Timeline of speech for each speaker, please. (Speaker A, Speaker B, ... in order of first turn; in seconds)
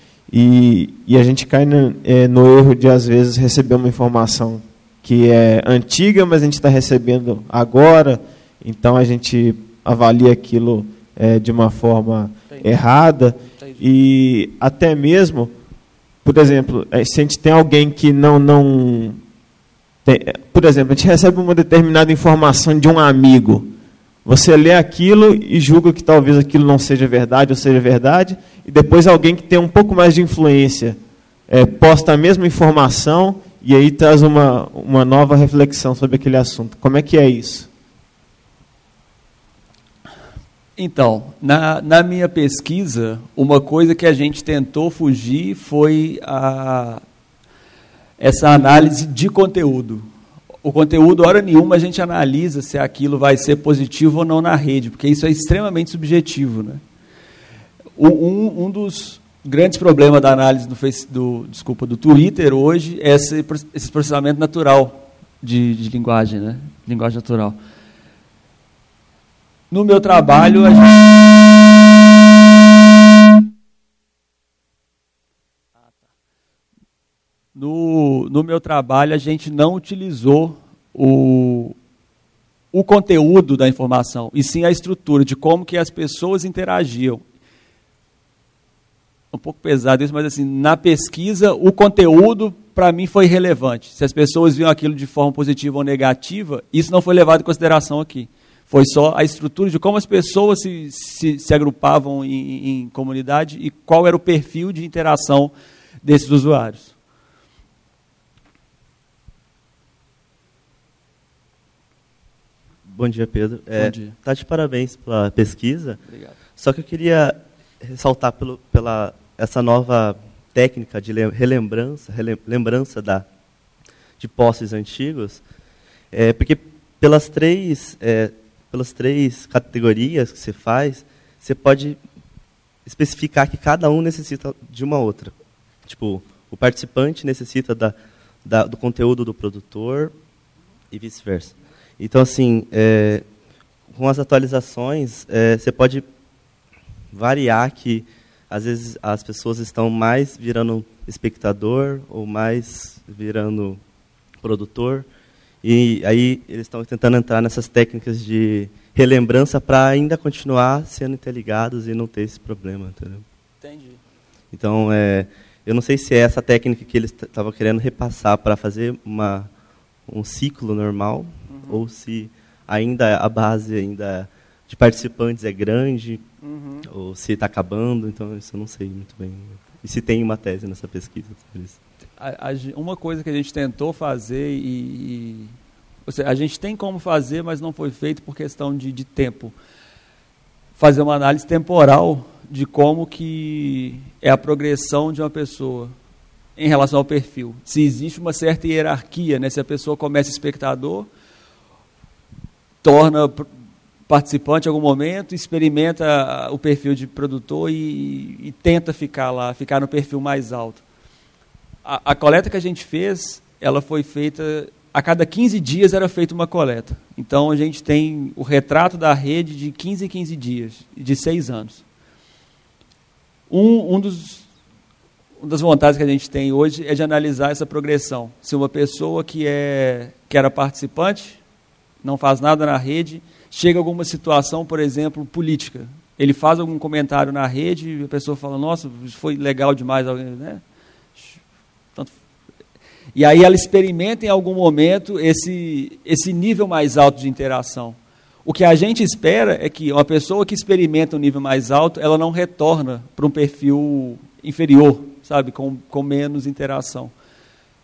Speaker A: 0.3-15.5, 16.2-19.2, 20.0-23.7, 24.2-31.0, 31.5-37.7
Speaker B: 13.4-13.8, 40.8-47.0, 48.2-50.1, 50.6-56.8, 57.9-67.6, 69.7-70.9, 75.8-76.1, 77.5-81.8, 82.7-87.2, 89.3-106.9, 113.8-114.2, 116.0-116.4, 163.6-164.0, 171.5-171.8, 176.4-176.9, 182.2-185.5, 186.1-189.6, 190.8-195.9, 196.6-201.1, 202.8-203.5, 204.1-210.8, 211.8-221.8, 223.5-224.5, 225.4-231.4, 232.0-240.6, 241.1-241.4, 243.1-257.1
Speaker C: 112.8-116.0, 116.6-123.2, 124.2-125.4, 126.1-132.0, 132.8-135.3, 135.8-140.1, 140.9-143.2, 143.9-146.0, 147.1-153.8, 154.4-155.1, 155.6-163.2, 164.5-169.5, 170.1-176.2, 176.9-181.8